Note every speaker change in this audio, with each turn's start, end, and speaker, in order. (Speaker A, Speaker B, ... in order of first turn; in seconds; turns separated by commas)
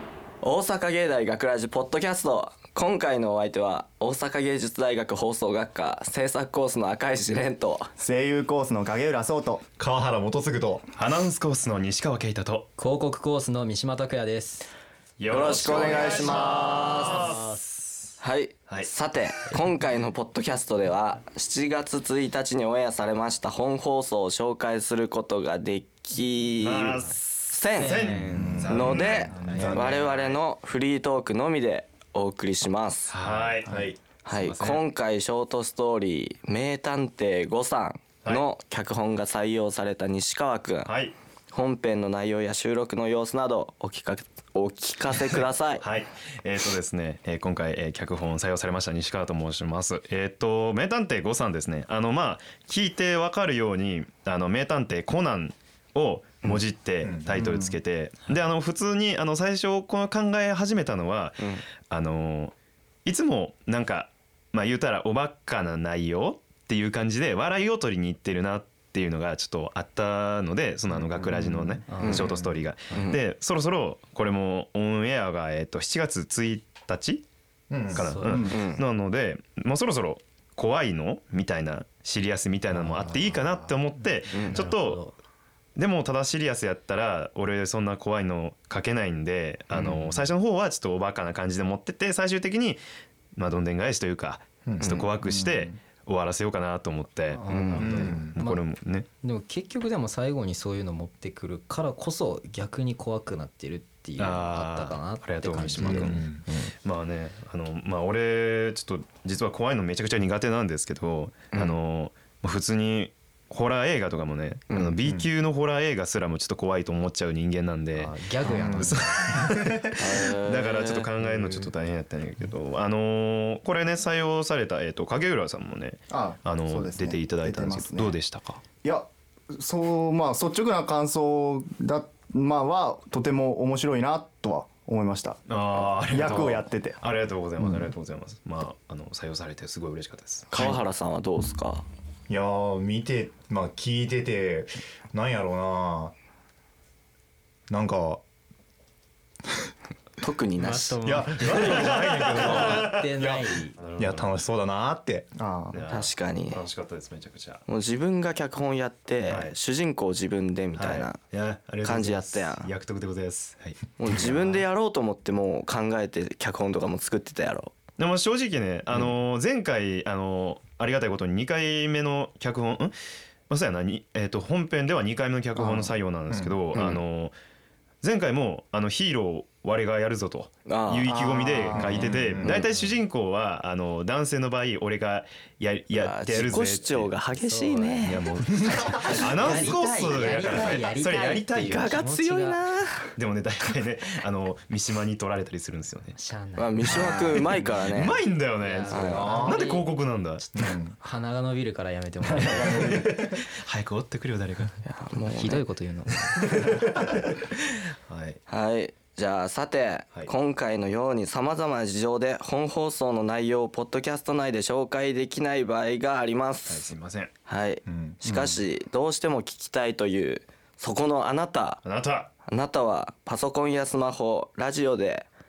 Speaker A: 0.4-7.9, Speaker B: 8.0-9.6, Speaker C: 9.8-10.9, Speaker D: 10.9-12.7, Speaker E: 12.8-14.7, Speaker D: 15.2-18.1, Speaker A: 15.3-17.4, Speaker C: 15.8-16.9, Speaker E: 17.1-17.5, Speaker A: 18.2-28.1, Speaker D: 26.6-27.2, Speaker D: 27.8-30.4, Speaker E: 27.8-28.7, Speaker C: 28.4-30.1, Speaker B: 28.4-29.6, Speaker A: 28.7-33.1, Speaker D: 33.1-34.8, Speaker C: 33.2-34.0, Speaker A: 34.2-40.9, Speaker D: 40.8-41.1, Speaker A: 41.5-45.8, Speaker D: 45.8-62.5, Speaker C: 57.0-57.6, Speaker B: 57.4-57.8, Speaker D: 63.0-77.2, Speaker C: 70.9-72.6, Speaker E: 71.9-72.3, Speaker A: 72.0-72.3, Speaker A: 72.9-73.2, Speaker C: 77.7-78.4, Speaker E: 77.9-78.4, Speaker D: 77.9-85.1, Speaker A: 78.4-78.8, Speaker C: 82.7-83.8, Speaker A: 84.3-84.6, Speaker E: 84.3-85.1, Speaker D: 85.8-92.8, Speaker C: 89.7-90.2, Speaker D: 93.3-99.1, Speaker C: 94.6-95.7, Speaker A: 94.8-95.1, Speaker E: 97.3-98.6, Speaker A: 97.4-98.2, Speaker C: 97.8-98.4, Speaker E: 99.2-106.7, Speaker D: 104.2-128.6, Speaker C: 105.8-106.4, Speaker A: 111.5-111.8, Speaker A: 114.7-115.0, Speaker C: 115.0-115.3, Speaker E: 117.9-119.4, Speaker C: 118.4-119.8, Speaker B: 118.5-118.8, Speaker A: 120.0-121.3, Speaker B: 126.1-128.2, Speaker B: 128.8-137.0, Speaker D: 135.5-140.8, Speaker B: 137.6-137.9, Speaker A: 140.5-141.8, Speaker C: 142.3-146.1, Speaker C: 147.7-148.2, Speaker A: 150.2-151.0, Speaker E: 150.6-153.8, Speaker C: 151.0-155.3, Speaker D: 151.4-153.1, Speaker D: 153.8-154.4, Speaker B: 155.3-155.8, Speaker D: 155.7-157.6, Speaker A: 155.9-156.6, Speaker A: 157.7-161.2, Speaker D: 159.3-159.5, Speaker D: 160.8-164.6, Speaker A: 161.8-162.7, Speaker A: 164.0-167.8, Speaker D: 168.0-172.9, Speaker D: 173.5-177.3, Speaker C: 175.6-176.6, Speaker A: 176.7-177.0, Speaker D: 178.0-187.1, Speaker A: 180.7-181.9, Speaker B: 181.6-182.1, Speaker C: 181.7-182.7, Speaker A: 182.4-182.7, Speaker A: 185.9-188.3, Speaker E: 187.4-188.2, Speaker D: 188.0-192.0, Speaker C: 188.6-189.4, Speaker E: 189.0-192.6, Speaker A: 191.6-193.1, Speaker D: 193.2-196.2, Speaker E: 196.2-197.6, Speaker A: 196.6-198.2, Speaker D: 196.9-200.4, Speaker E: 198.6-203.0, Speaker A: 198.9-199.3, Speaker C: 199.0-199.6, Speaker C: 200.5-200.9, Speaker C: 202.3-203.2, Speaker B: 202.6-203.1, Speaker D: 202.6-204.8, Speaker A: 204.8-205.6, Speaker E: 205.3-206.5, Speaker D: 206.3-207.0, Speaker D: 208.1-208.4, Speaker A: 208.5-216.9, Speaker D: 216.7-217.3, Speaker A: 217.4-221.8, Speaker C: 217.8-218.2, Speaker B: 218.2-218.6, Speaker D: 221.8-222.3, Speaker A: 222.5-225.3